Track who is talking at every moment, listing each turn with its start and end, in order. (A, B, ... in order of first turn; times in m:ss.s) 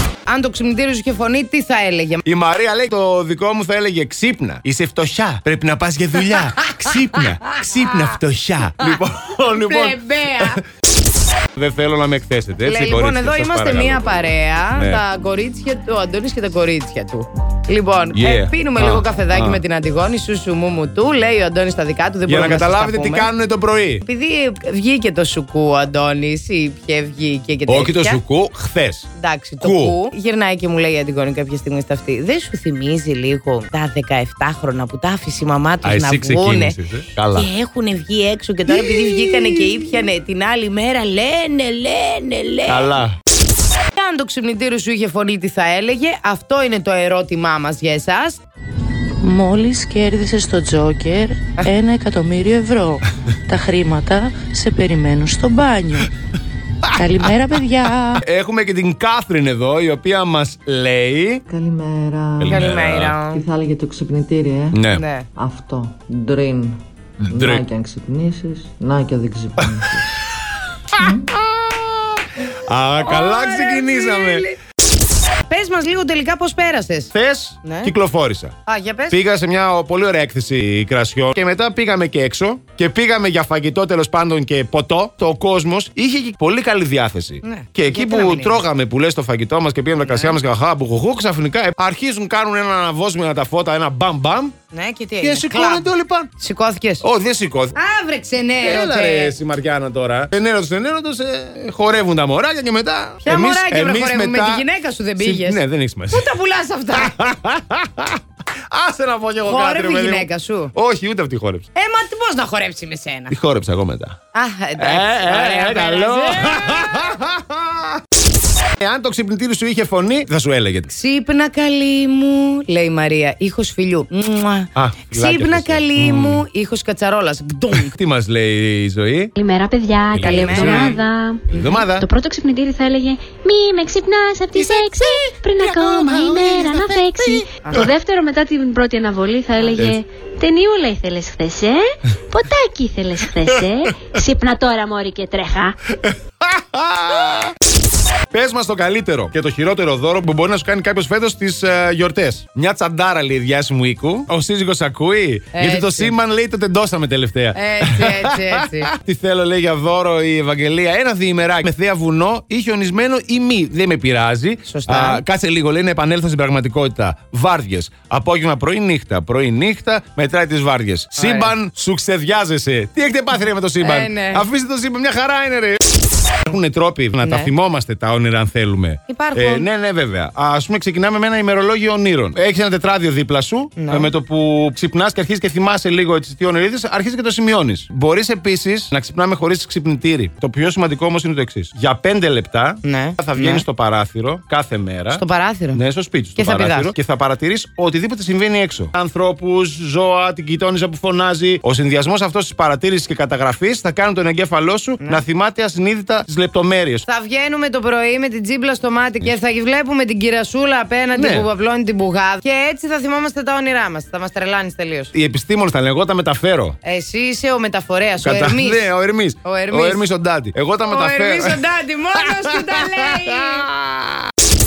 0:00.3-0:02.2 A
0:02.2-0:10.6 B
0:09.6-0:10.6 A
0:11.5-0:14.2 B
0:12.6-0:23.3 A
0:14.8-0:15.0 B
0:18.1-0:19.6 B
0:22.2-0:24.0 B
0:24.0-0:28.2 A
0:27.7-0:29.1 B
0:29.2-0:36.8 A
0:29.6-0:30.0 B
0:35.8-0:37.5 B
0:37.3-0:42.9 A
0:38.7-0:39.8 B
0:42.7-0:43.2 B
0:44.0-0:48.4 A
0:49.2-0:56.1 C
0:57.0-0:58.2 C
0:58.2-1:01.4 B
1:01.5-1:02.7 D
1:02.4-1:03.2 B
1:02.4-1:03.4 A
1:03.3-1:04.8 D
1:04.7-1:05.0 B
1:05.0-1:05.2 A
1:05.4-1:10.0 D
1:07.2-1:07.6 B
1:12.6-1:14.4 B
1:13.0-1:14.6 A
1:15.5-1:17.1 A
1:17.1-1:18.5 B
1:17.6-1:17.9 A
1:18.7-1:19.2 A
1:19.1-1:34.5 B
1:27.5-1:28.6 A
1:30.0-1:30.3 A
1:34.7-1:35.9 A
1:35.2-1:36.3 B
1:36.4-1:37.0 A
1:37.0-1:37.8 B
1:37.8-1:39.3 A
1:38.6-1:44.6 B
1:43.2-1:45.6 A
1:45.2-1:46.3 B
1:46.1-1:47.2 A
1:47.0-1:51.6 B
1:49.4-1:50.7 A
1:51.8-1:53.3 A
1:53.3-1:54.2 B
1:54.3-1:57.0 A
1:54.8-1:58.0 B
1:58.8-2:00.9 B
2:00.9-2:04.1 A
2:04.1-2:04.6 C
2:04.7-2:06.4 B
2:05.1-2:07.9 A
2:07.8-2:09.3 B
2:09.4-2:11.4 E
2:10.1-2:11.0 B
2:10.2-2:11.0 A
2:11.5-2:12.1 B
2:12.0-2:25.7 E
2:14.6-2:17.9 B
2:19.7-2:20.0 B
2:26.0-2:27.5 B
2:28.3-2:55.8 B
2:35.5-2:36.1 A
2:37.5-2:38.9 A
2:44.7-2:45.2 A
2:51.1-2:51.5 A
2:53.8-2:54.4 A
2:56.4-3:15.2 B
2:57.2-2:57.5 A
2:59.1-2:59.6 A
3:03.8-3:04.1 A
3:12.8-3:13.6 A
3:15.1-3:15.8 A
3:15.7-3:27.0 B
3:16.4-3:16.9 A
3:27.1-3:35.1 A
3:31.1-3:31.5 B
3:35.1-3:36.8 B
3:36.8-3:38.9 A
3:38.2-3:41.6 B
3:39.4-3:40.0 A
3:40.9-3:43.7 A
3:42.2-3:44.3 B